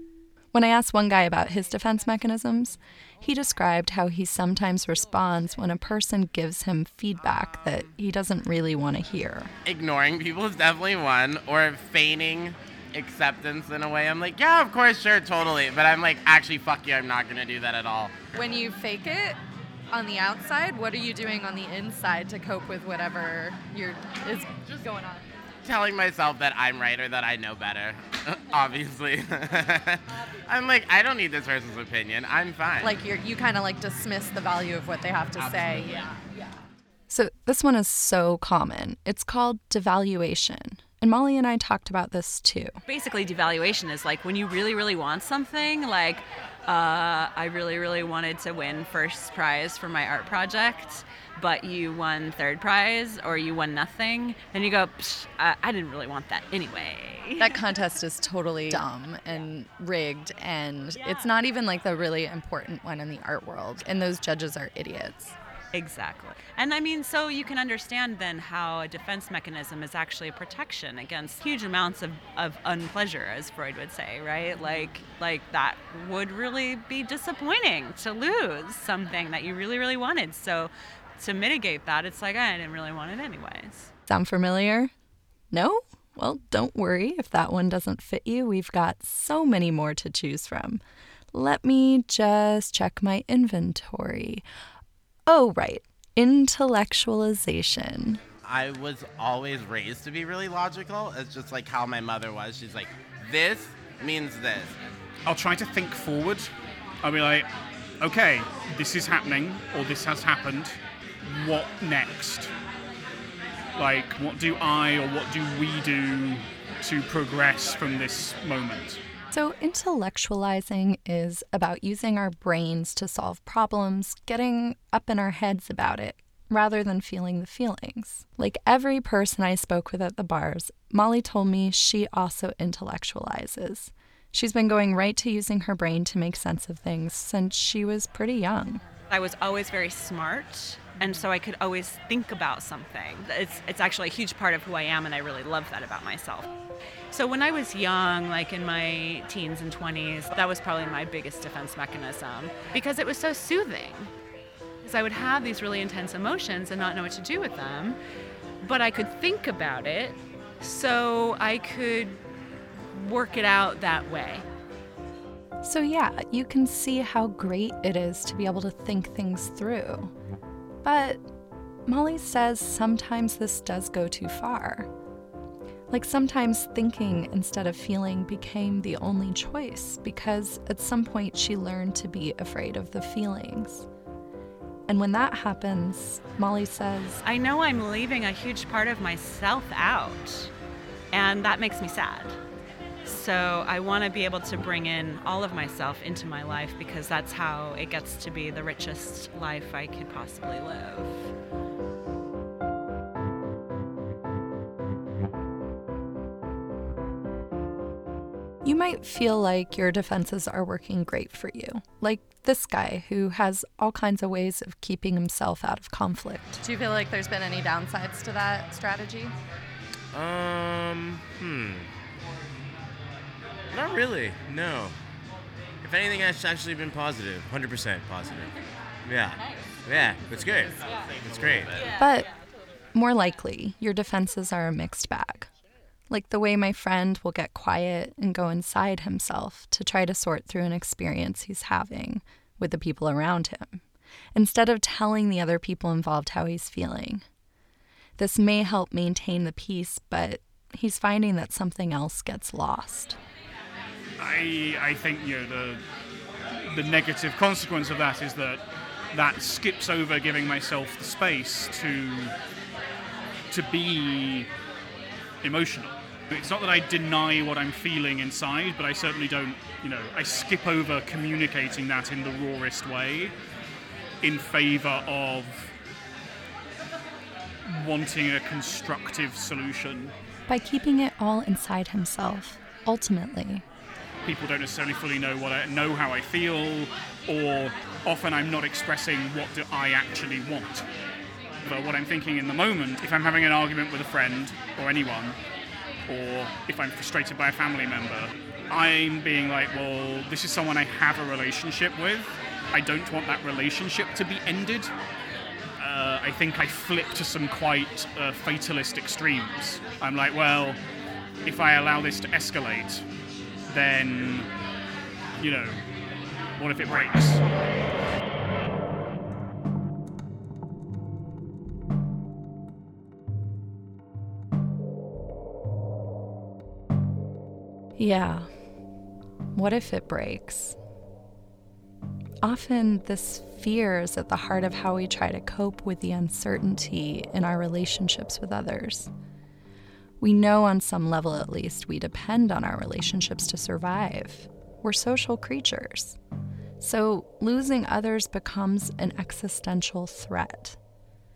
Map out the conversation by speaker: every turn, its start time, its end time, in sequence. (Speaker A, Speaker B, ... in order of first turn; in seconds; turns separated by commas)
Speaker A: 0.5-9.5, Speaker B: 9.7-18.2, Speaker C: 18.3-19.4, Speaker C: 19.9-25.2, Speaker B: 25.6-33.0, Speaker C: 32.8-36.2, Speaker A: 37.1-42.8, Speaker D: 42.9-57.6, Speaker C: 57.4-65.4, Speaker D: 65.7-83.9, Speaker A: 84.1-84.9, Speaker A: 85.5-90.8, Speaker A: 91.3-94.4, Speaker A: 95.3-98.2, Speaker B: 98.4-104.7, Speaker E: 105.2-106.5, Speaker E: 107.0-107.5, Speaker E: 108.0-112.5, Speaker E: 113.8-119.0, Speaker A: 119.3-138.8, Speaker D: 139.1-146.5, Speaker D: 147.1-154.1, Speaker D: 154.8-158.0, Speaker D: 158.6-162.2, Speaker D: 162.9-164.4, Speaker A: 165.6-170.1, Speaker A: 170.8-171.2, Speaker A: 171.9-174.9, Speaker A: 175.9-183.9, Speaker A: 184.9-187.2, Speaker D: 187.2-190.5, Speaker D: 191.1-192.3, Speaker D: 193.0-201.3, Speaker A: 208.6-216.6, Speaker C: 216.6-219.3, Speaker F: 220.1-221.9, Speaker F: 223.7-224.9, Speaker F: 225.8-228.5, Speaker F: 229.1-231.8, Speaker A: 231.9-232.3, Speaker A: 232.9-235.5, Speaker A: 236.1-243.8, Speaker A: 244.3-247.2, Speaker A: 248.2-253.2, Speaker E: 254.2-255.8, Speaker E: 256.7-262.3, Speaker E: 263.5-264.5, Speaker E: 265.4-273.3, Speaker E: 274.2-275.7, Speaker E: 277.7-280.1, Speaker A: 280.5-283.6, Speaker E: 284.2-290.8, Speaker E: 291.6-295.4, Speaker E: 296.1-304.9, Speaker E: 305.8-310.8, Speaker E: 311.4-313.0, Speaker E: 313.7-314.5, Speaker E: 315.4-315.8, Speaker E: 316.6-317.4, Speaker A: 328.0-328.5, Speaker A: 329.5-330.8, Speaker A: 332.4-339.1, Speaker A: 340.2-346.2, Speaker A: 346.8-350.8